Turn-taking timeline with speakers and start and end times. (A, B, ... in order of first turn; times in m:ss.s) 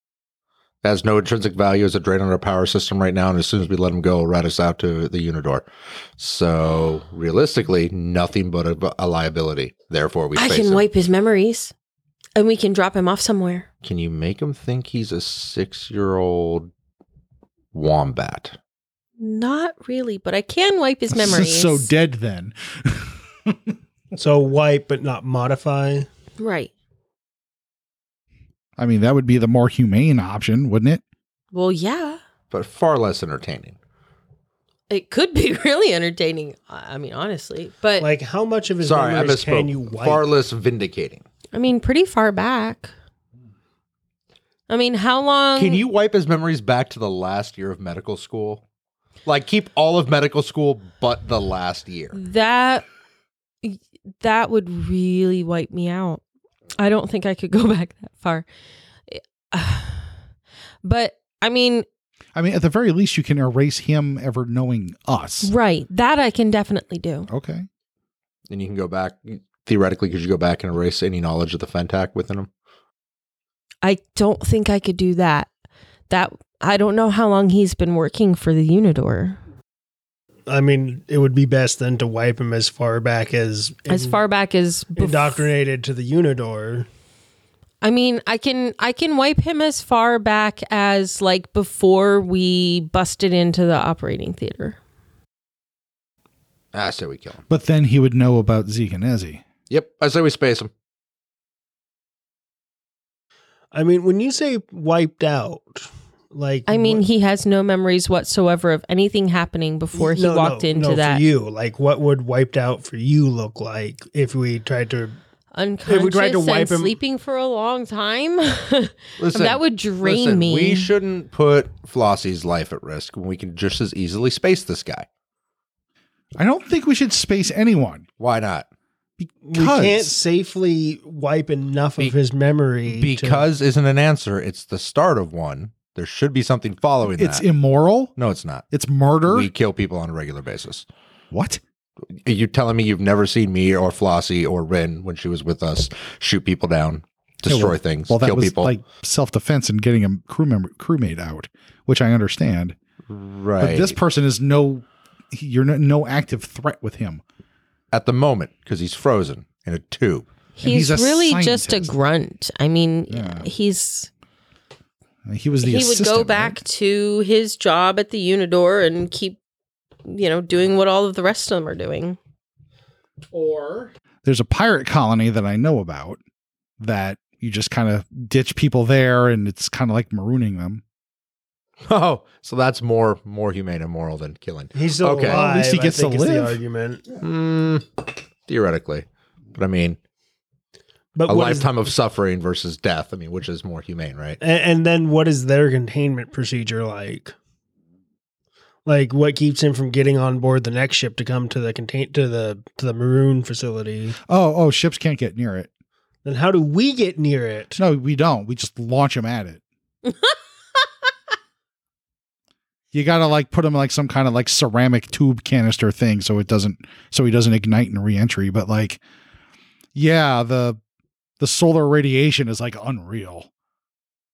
0:00.8-0:05.6 A
0:06.2-0:10.8 A
0:10.3-0:11.7 B
0:12.3-0:13.7 B
0:13.8-0:16.7 A
0:17.7-0:18.6 A
0:19.2-0:21.9 B
0:21.1-0:23.7 C
0:24.2-0:26.1 D
0:26.4-0:26.7 B
0:28.8-0:31.0 C
0:31.5-0:32.2 B
0:32.5-0:33.8 A
0:34.9-0:38.1 B
0:38.0-0:40.2 D
0:38.8-0:41.2 A
0:41.5-0:42.9 B
0:44.7-0:45.8 B
0:45.6-0:48.6 A
0:49.2-0:52.2 A
0:52.1-0:52.8 B
0:53.6-0:56.2 B
0:56.8-0:58.5 B
0:59.1-1:00.1 B
1:00.8-1:01.8 B
1:02.3-1:05.5 C
1:05.4-1:07.3 B
1:07.3-1:07.7 C
1:08.5-1:12.5 A
1:13.8-1:15.5 B
1:16.1-1:19.4 B
1:20.5-1:24.2 D
1:23.9-1:25.5 B
1:25.0-1:26.9 D
1:27.8-1:34.8 B
1:36.7-1:37.4 A
1:37.5-1:39.4 C
1:39.7-1:40.7 A
1:43.7-1:47.0 D
1:46.7-1:51.2 B
1:49.9-1:55.2 D
1:55.5-2:00.9 B
1:55.9-1:57.0 D
1:59.2-2:05.1 A
2:06.4-2:08.0 C
2:08.2-2:08.6 A
2:09.2-2:10.2 C
2:09.4-2:13.4 D
2:12.9-2:17.4 A
2:17.1-2:18.1 C
2:18.2-2:18.6 A
2:18.7-2:19.5 C
2:19.3-2:20.8 A
2:21.3-2:21.6 C
2:22.2-2:28.7 A
2:27.5-2:32.8 C
2:33.1-2:34.0 A
2:33.6-2:37.2 C
2:37.9-2:40.3 A
2:40.6-2:44.1 B
2:40.6-2:41.9 C
2:43.1-2:43.5 C
2:45.2-2:46.6 C
2:45.6-2:49.4 B
2:50.0-2:52.2 B
2:53.3-2:56.2 C
2:56.8-3:00.8 C
3:01.9-3:05.5 A
3:04.7-3:07.0 D
3:05.2-3:06.6 C
3:07.1-3:10.0 A
3:11.1-3:11.7 D
3:11.2-3:14.4 A
3:14.4-3:17.3 D
3:18.8-3:24.2 D
3:24.3-3:25.7 C
3:26.2-3:27.8 D
3:27.8-3:29.6 C
3:30.0-3:30.4 B
3:32.9-3:39.0 C
3:39.9-3:40.8 C
3:41.4-3:43.5 C